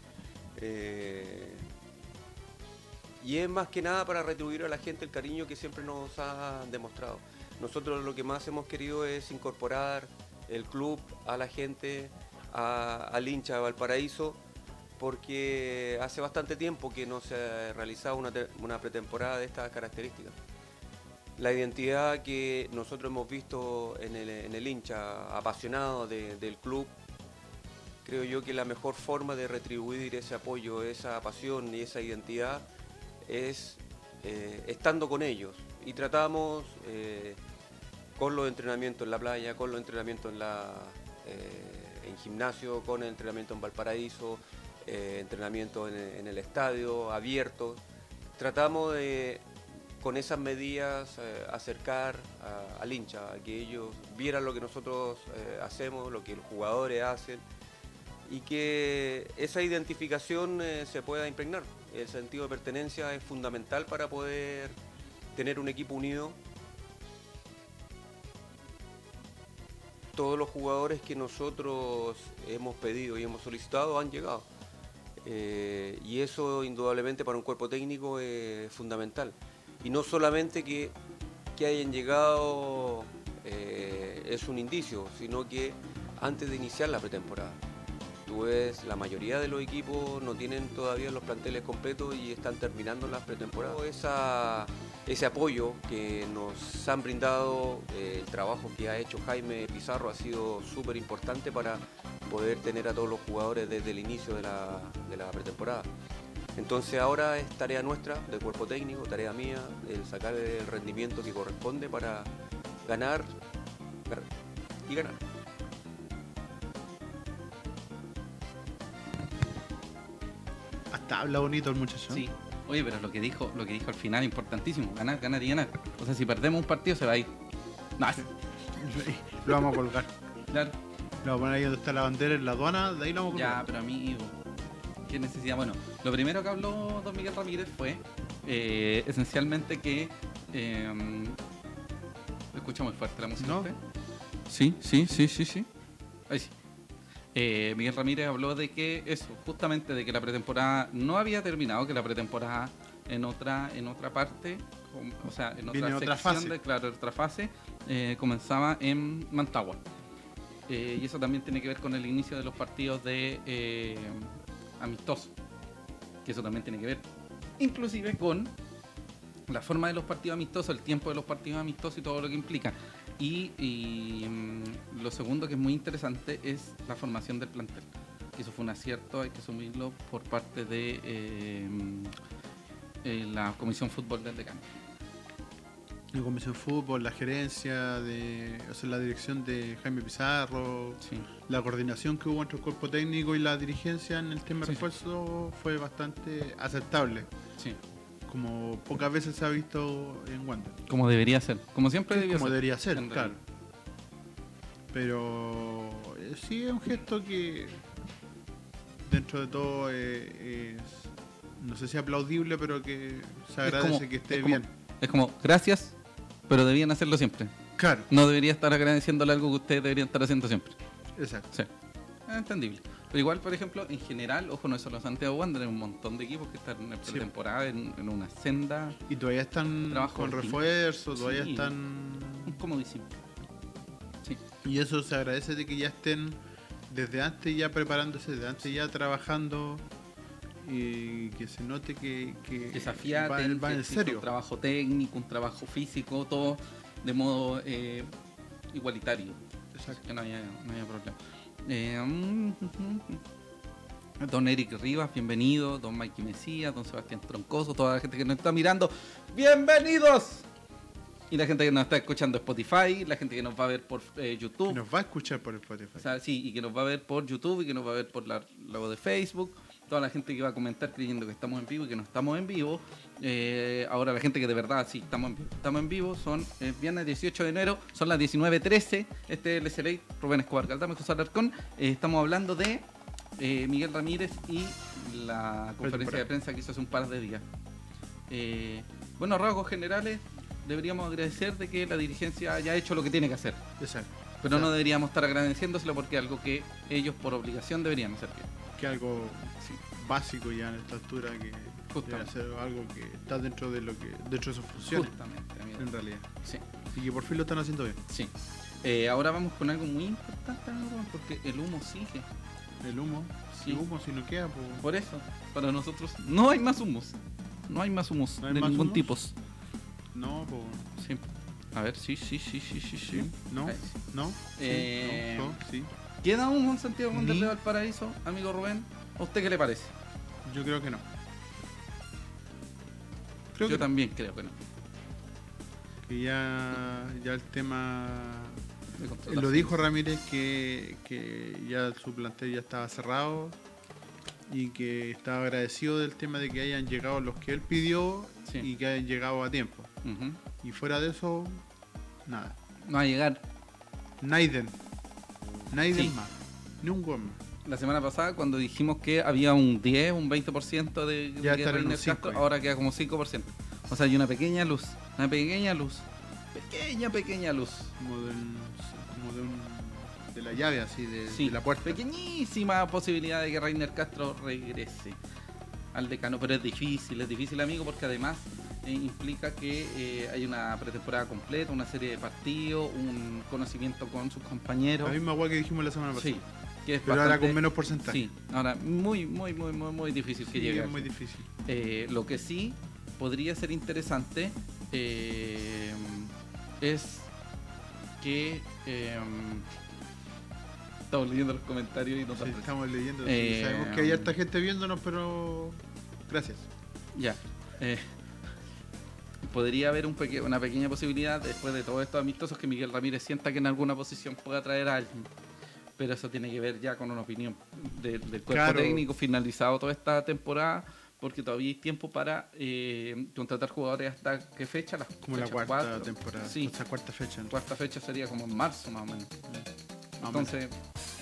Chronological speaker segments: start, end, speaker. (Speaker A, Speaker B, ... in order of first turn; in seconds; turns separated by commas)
Speaker A: 0.6-1.7, Speaker A: 3.2-14.4, Speaker A: 15.0-20.3, Speaker A: 21.4-26.9, Speaker A: 28.0-32.6, Speaker A: 33.2-37.4, Speaker A: 38.1-47.8, Speaker A: 48.4-49.5, Speaker A: 50.0-57.4, Speaker A: 58.2-64.8, Speaker A: 65.3-66.4, Speaker A: 70.1-74.5, Speaker A: 75.2-81.0, Speaker A: 81.5-87.6, Speaker A: 88.3-105.9, Speaker A: 106.5-112.3, Speaker A: 112.8-113.3, Speaker A: 114.9-115.2, Speaker B: 120.9-122.2, Speaker C: 122.1-127.3, Speaker C: 128.0-128.3, Speaker B: 128.2-130.1, Speaker B: 131.2-133.6, Speaker C: 133.3-134.3, Speaker C: 135.1-141.4, Speaker C: 142.5-143.8, Speaker B: 143.4-143.7, Speaker C: 144.5-145.7, Speaker C: 147.3-159.8, Speaker B: 155.7-156.6, Speaker C: 160.7-165.3, Speaker C: 166.2-167.0, Speaker C: 167.6-168.5, Speaker C: 169.5-182.1, Speaker C: 183.0-184.8, Speaker B: 186.1-197.3, Speaker B: 198.2-200.8, Speaker C: 200.9-203.4, Speaker B: 202.1-203.4, Speaker B: 204.9-207.8, Speaker B: 209.1-214.7, Speaker C: 213.6-215.9, Speaker C: 216.5-217.5, Speaker B: 217.8-218.1, Speaker C: 218.1-220.8, Speaker B: 221.1-221.5, Speaker C: 222.3-229.0, Speaker B: 229.1-232.6, Speaker C: 229.9-231.7, Speaker C: 232.4-233.1, Speaker B: 234.6-239.8, Speaker B: 240.6-244.3, Speaker C: 242.7-248.1, Speaker C: 248.7-253.2, Speaker B: 249.7-250.0, Speaker C: 254.2-260.4, Speaker C: 261.3-264.8, Speaker B: 264.7-266.1, Speaker C: 266.0-282.9, Speaker C: 283.4-287.4, Speaker B: 285.8-286.2, Speaker C: 288.3-293.6, Speaker B: 293.8-294.7, Speaker C: 294.4-298.5, Speaker B: 298.8-305.1, Speaker C: 301.9-302.3, Speaker C: 304.8-305.9, Speaker B: 305.8-306.3, Speaker B: 306.9-308.0, Speaker C: 308.1-308.3, Speaker C: 308.8-312.3, Speaker B: 312.8-314.8, Speaker C: 313.5-313.8, Speaker C: 314.8-317.2, Speaker C: 317.7-319.3, Speaker B: 318.4-319.1, Speaker B: 320.1-320.9, Speaker C: 321.0-321.2, Speaker C: 321.7-324.0, Speaker B: 323.1-325.9, Speaker C: 324.6-325.6, Speaker C: 326.2-329.9, Speaker B: 327.1-327.6, Speaker B: 330.4-331.0, Speaker B: 333.5-333.9, Speaker C: 333.6-334.6, Speaker B: 336.1-338.6, Speaker C: 338.9-339.8, Speaker B: 339.3-343.6, Speaker B: 344.5-349.9, Speaker C: 350.0-350.4, Speaker B: 350.6-351.6, Speaker B: 352.2-352.6, Speaker C: 352.8-353.4, Speaker B: 354.2-354.8, Speaker B: 355.7-357.4, Speaker C: 357.6-367.9, Speaker B: 361.4-362.5, Speaker B: 368.0-372.0, Speaker C: 371.3-375.2, Speaker C: 375.9-385.2, Speaker B: 385.0-386.4, Speaker C: 386.1-391.1, Speaker B: 387.0-388.2, Speaker B: 390.5-391.5, Speaker C: 391.6-397.3, Speaker C: 398.2-399.6, Speaker C: 401.1-402.7, Speaker B: 402.3-406.7, Speaker C: 403.2-404.3, Speaker C: 407.1-408.1, Speaker C: 409.4-415.3, Speaker C: 416.0-426.7, Speaker B: 418.5-419.0, Speaker B: 425.2-427.5, Speaker C: 427.5-429.3, Speaker B: 430.2-430.5, Speaker C: 430.2-430.7